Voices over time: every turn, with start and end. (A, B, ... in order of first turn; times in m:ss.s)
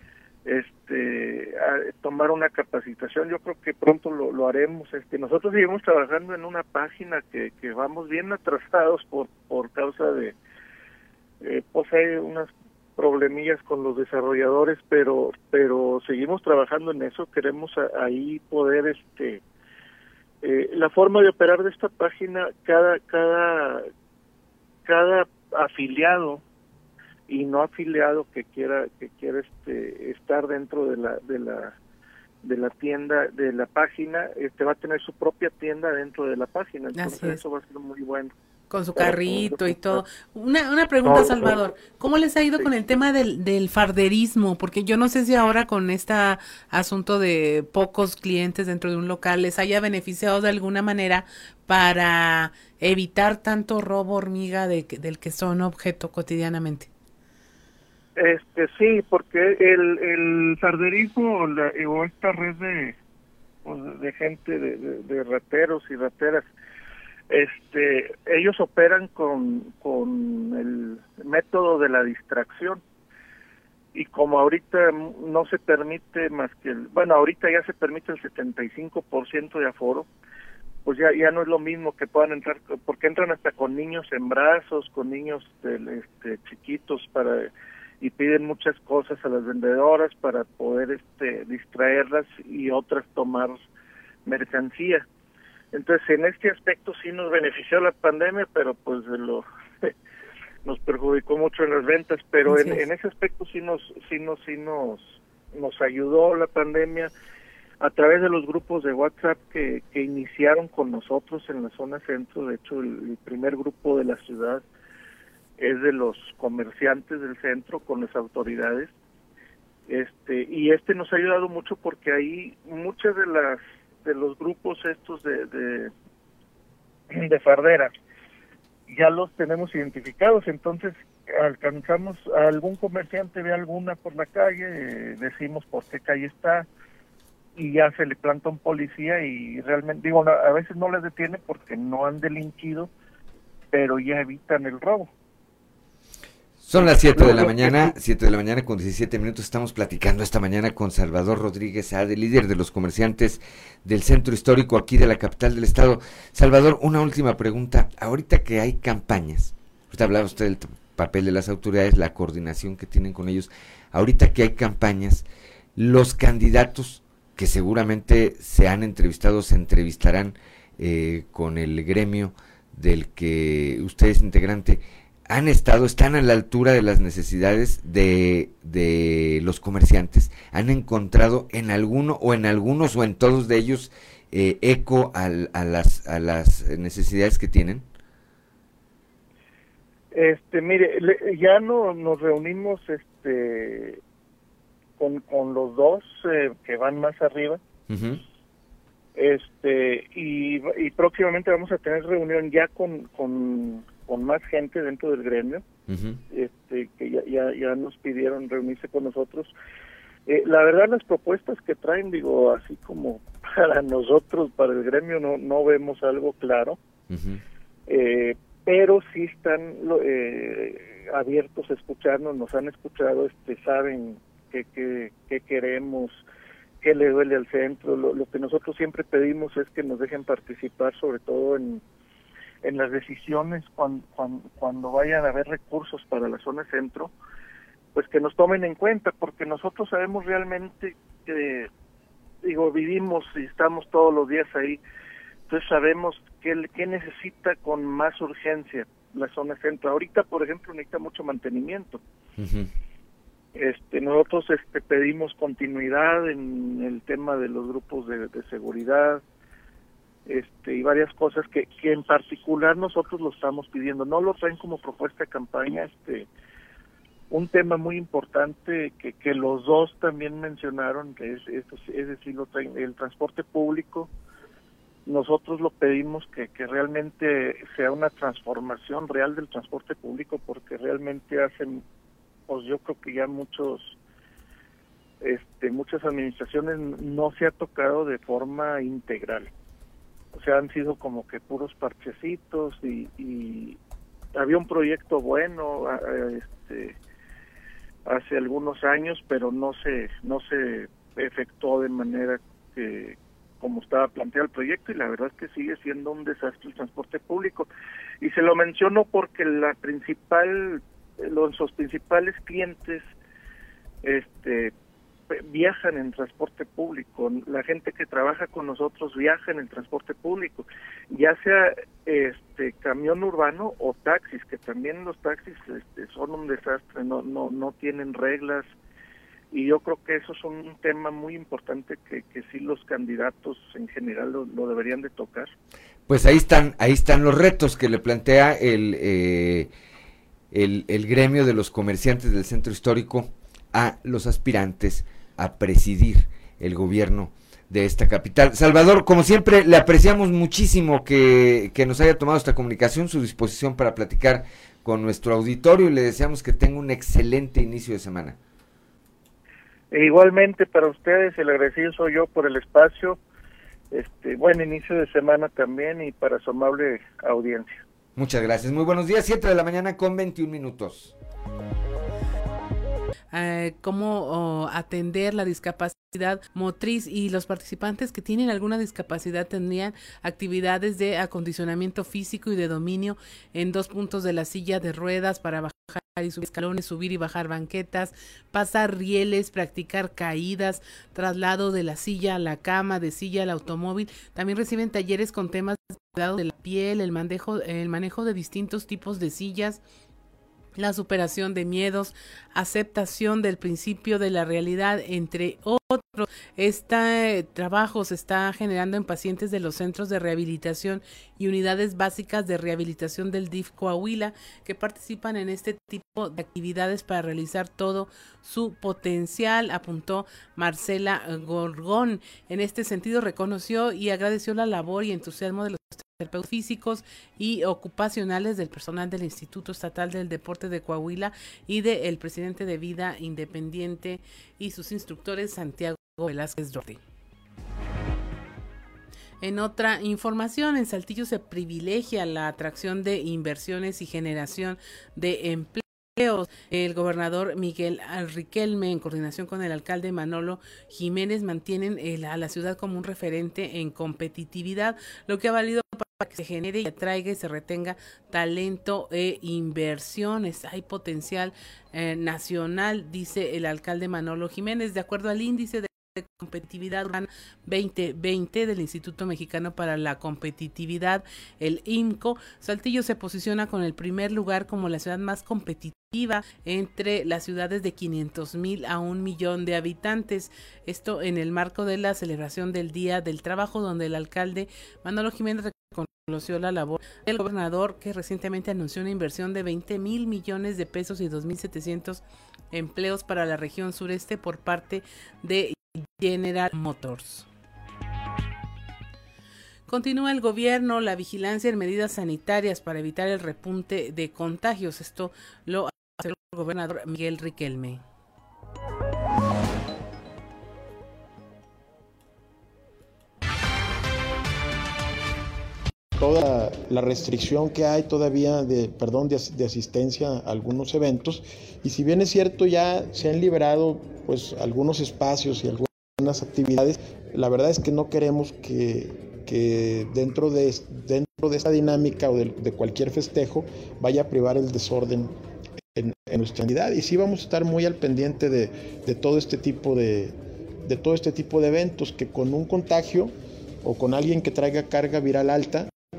0:00.4-0:10.4 A
0:11.4-0:19.4 A
0:20.4-0:23.9 A
0:24.9-0:26.4 A
0:27.3-0:31.8 A
0:32.4-0:38.3 A
0:37.0-0:37.4 B
0:38.7-0:56.9 B
0:39.0-0:40.0 A
0:41.0-0:41.6 A
0:58.2-1:03.0 A
1:03.6-1:06.4 A
1:07.3-1:12.8 A
1:13.9-1:20.1 A
1:20.8-1:27.5 A
1:28.0-1:33.6 A
1:34.3-1:35.0 A
1:35.7-1:39.9 A
1:40.6-1:47.1 A
1:42.5-1:42.8 B
1:47.8-1:54.6 A
1:55.6-1:58.9 A
1:59.9-2:05.9 A
2:07.1-2:07.9 A
2:08.9-2:16.7 A
2:17.6-2:22.9 A
2:23.7-2:25.1 A
2:26.6-2:45.2 C
2:26.8-2:27.9 A
2:45.8-3:07.9 C
3:10.1-3:14.0 A
3:15.0-3:17.6 A
3:17.9-3:18.2 C
3:19.2-3:25.6 A
3:25.9-3:26.2 C
3:26.3-3:29.5 A
3:30.3-3:36.8 A
3:37.1-3:37.4 C
3:37.9-3:46.2 A
3:46.8-3:51.8 A
3:52.6-3:57.1 A
3:58.0-4:01.7 A
4:02.4-4:04.8 A
4:05.5-4:12.0 A
4:12.4-4:12.7 C
4:13.6-4:19.2 A
4:20.3-4:26.3 A
4:27.3-4:34.1 A
4:35.1-4:41.8 A
4:42.5-4:44.0 A
4:45.2-4:49.5 A
4:50.3-4:53.8 A
4:54.4-4:57.0 A
4:58.1-5:07.7 A
5:08.2-5:13.0 A
5:14.0-5:14.7 A
5:15.3-5:28.7 A
5:29.5-5:35.5 A
5:36.1-5:39.7 C
5:40.5-5:58.4 C
5:59.9-6:03.2 A
6:03.9-6:07.8 A
6:08.2-6:11.1 C
6:13.3-6:39.8 B
6:40.8-7:17.0 B
7:19.4-8:17.5 B
8:19.9-8:28.0 B
8:36.2-8:55.4 D
8:55.9-9:05.9 D